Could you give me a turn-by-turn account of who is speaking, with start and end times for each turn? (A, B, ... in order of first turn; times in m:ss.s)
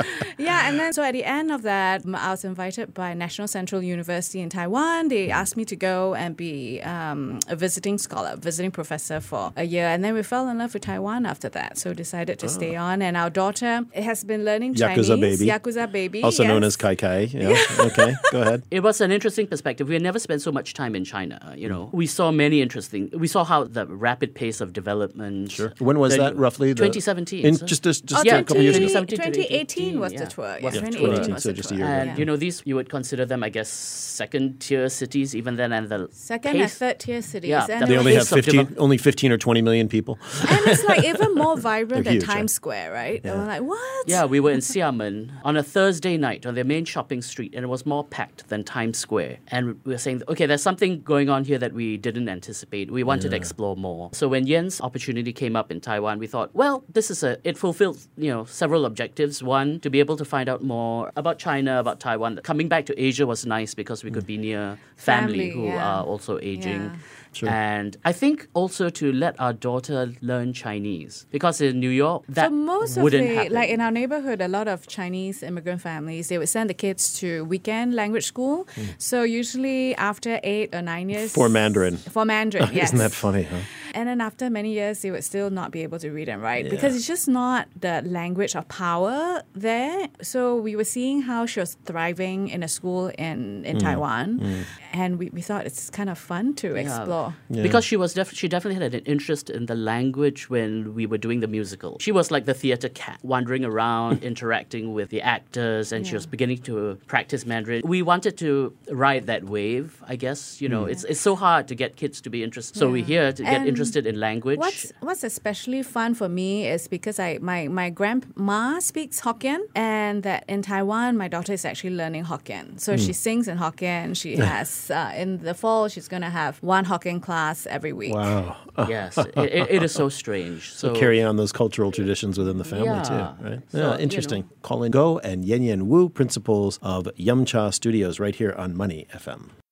0:00.2-0:18.2 A
0:12.4-0:12.7 B
0:14.7-0:15.6 B
0:16.2-0:18.6 B
0:18.7-0:36.8 C
0:25.5-0:29.0 B
0:28.1-0:32.2 A
0:30.7-0:32.3 B
0:36.1-0:38.3 A
0:37.4-0:38.7 C
0:37.8-0:41.3 B
0:40.4-0:44.4 A
0:41.9-0:42.5 B
0:43.2-0:43.5 B
0:44.0-1:13.8 C
0:53.1-0:53.5 B
1:05.0-1:07.0 A
1:12.4-1:37.4 A
1:21.1-1:22.1 B
1:22.6-1:23.7 B
1:26.6-1:27.0 B
1:33.7-1:34.7 B
1:36.7-1:54.9 C
1:37.5-1:37.8 B
1:46.0-1:46.3 A
1:50.7-1:51.0 B
1:52.8-1:54.0 A
1:54.5-2:08.4 A
2:08.0-2:10.0 B
2:08.8-2:11.2 C
2:10.8-2:19.5 B
2:12.6-2:14.4 C